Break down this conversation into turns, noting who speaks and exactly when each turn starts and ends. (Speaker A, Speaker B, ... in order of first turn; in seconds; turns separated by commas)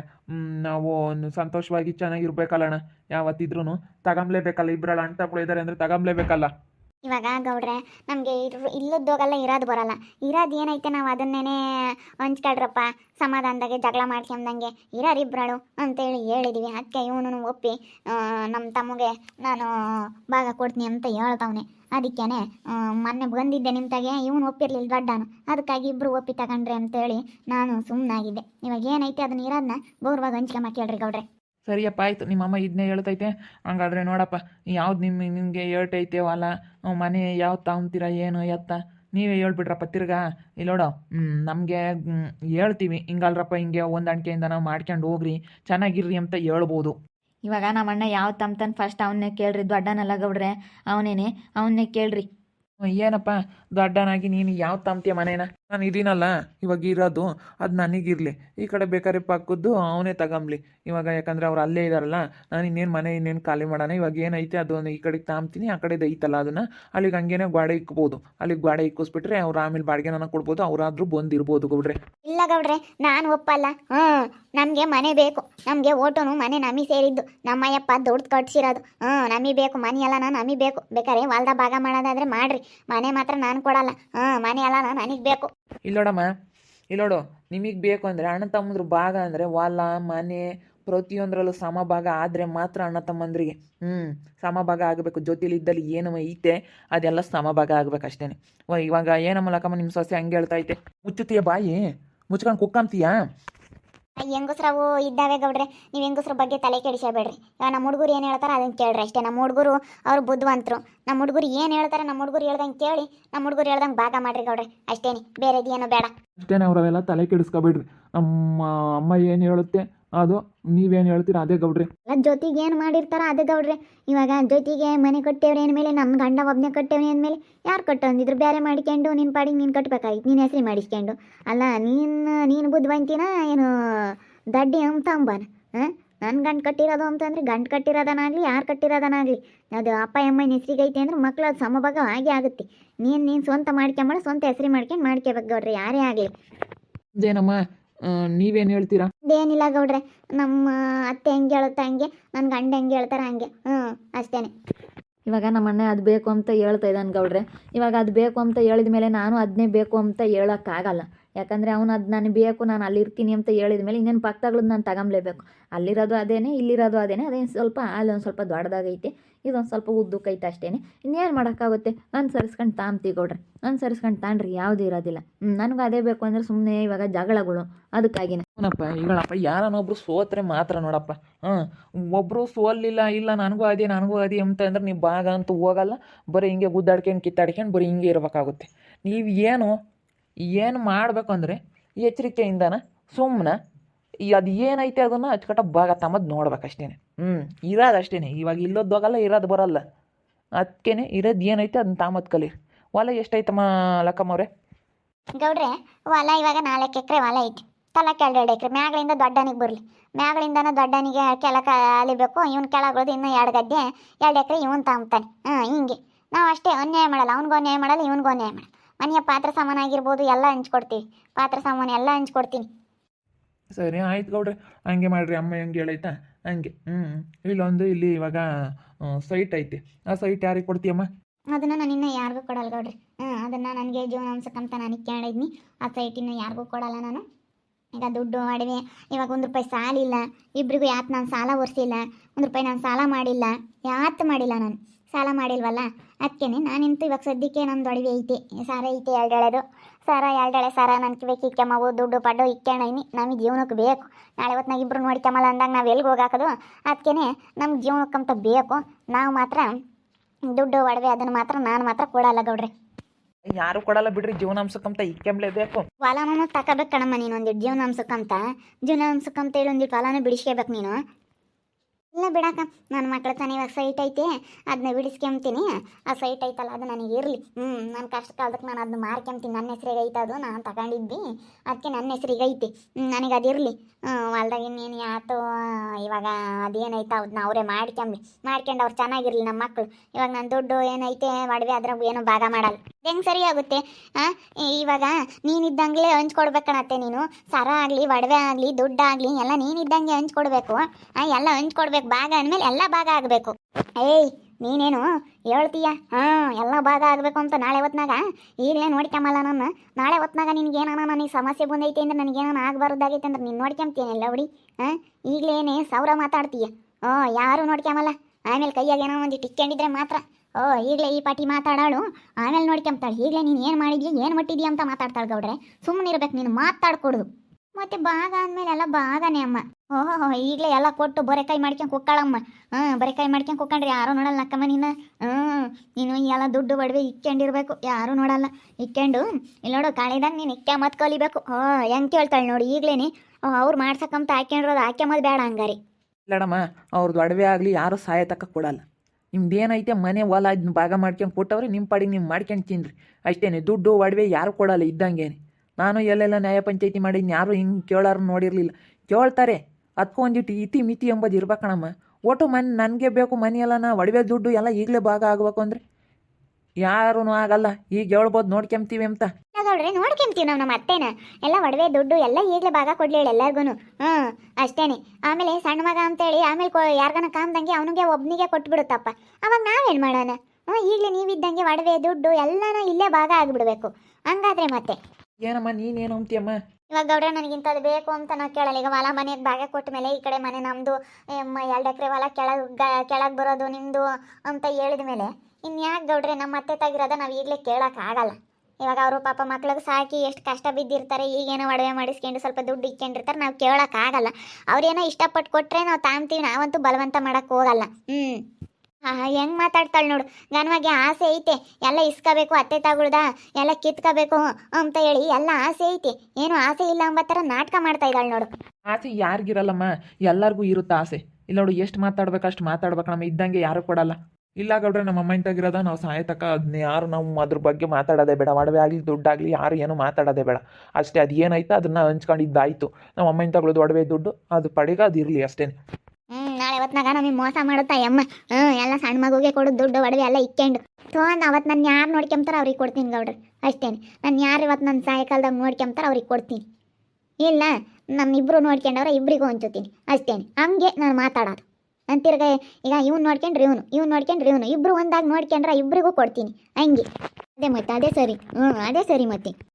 Speaker A: 0.3-6.5, Speaker B: 7.0-11.6, Speaker B: 12.2-31.2, Speaker A: 31.7-47.0, Speaker C: 47.5-52.3, Speaker A: 52.8-72.0, Speaker B: 72.2-85.5, Speaker A: 85.8-86.3, Speaker A: 86.9-101.8, Speaker A: 102.3-103.2, Speaker B: 104.2-116.1, Speaker A: 116.4-121.9, Speaker B: 122.1-146.3, Speaker A: 147.2-149.1, Speaker B: 149.3-154.5, Speaker C: 155.3-178.4, Speaker A: 178.6-189.7, Speaker A: 190.5-193.6, Speaker A: 194.3-199.8, Speaker A: 200.6-204.5, Speaker B: 205.4-222.7, Speaker A: 223.7-228.4, Speaker A: 229.0-231.1, Speaker B: 231.5-237.2, Speaker B: 237.9-259.7, Speaker B: 260.5-262.7, Speaker A: 263.5-265.8, Speaker B: 266.0-271.0, Speaker B: 272.1-345.8, Speaker A: 346.3-348.8, Speaker A: 349.3-365.8, Speaker A: 366.8-369.3, Speaker B: 369.5-385.0, Speaker A: 385.4-386.6, Speaker B: 386.9-408.4, Speaker B: 409.1-418.5, Speaker A: 418.9-435.7, Speaker B: 436.3-446.6, Speaker B: 447.4-457.1, Speaker B: 457.6-459.5